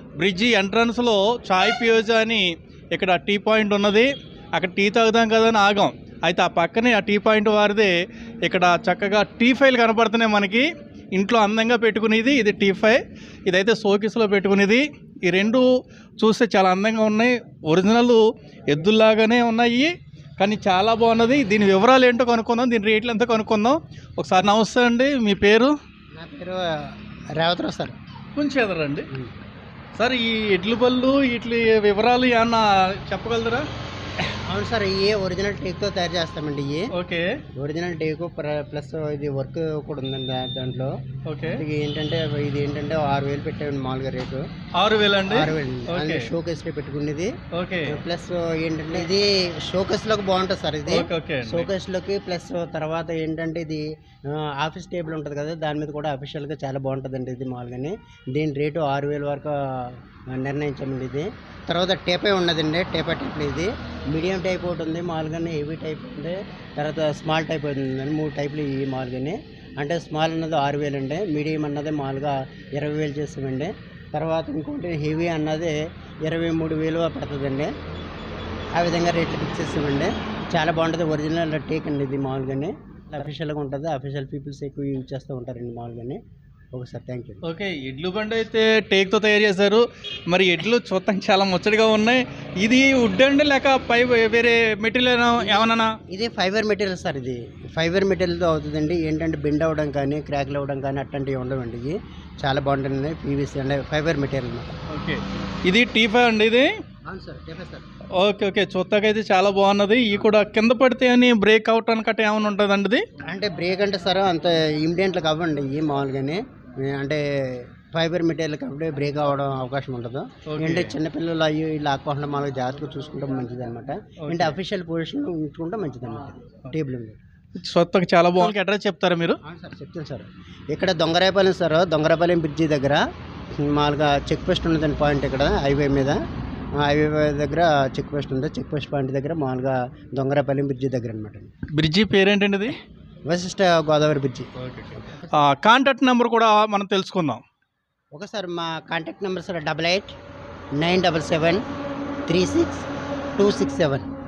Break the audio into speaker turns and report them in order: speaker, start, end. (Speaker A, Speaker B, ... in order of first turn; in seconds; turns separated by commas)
Speaker A: 0.2-7.9, Speaker A: 8.4-25.7, Speaker B: 26.1-28.0, Speaker A: 28.3-29.1, Speaker A: 30.0-33.6, Speaker B: 34.3-36.9, Speaker A: 36.9-37.2, Speaker B: 37.5-44.5, Speaker A: 41.2-41.6, Speaker A: 44.8-46.3, Speaker B: 45.3-47.3, Speaker A: 47.5-48.0, Speaker B: 47.9-77.7, Speaker A: 50.9-51.7, Speaker B: 78.8-86.2, Speaker B: 86.7-87.4, Speaker A: 87.4-96.0, Speaker B: 95.4-104.7, Speaker A: 104.9-106.7, Speaker B: 107.0-107.8, Speaker A: 108.2-113.0, Speaker B: 113.3-127.2, Speaker A: 120.5-120.9, Speaker A: 124.2-124.6, Speaker A: 127.5-129.4, Speaker B: 129.4-133.0, Speaker B: 133.6-136.2, Speaker B: 136.8-141.5, Speaker A: 141.7-142.8, Speaker B: 143.3-144.5, Speaker A: 144.6-147.4, Speaker B: 148.1-150.2, Speaker B: 150.8-151.6, Speaker B: 152.3-154.1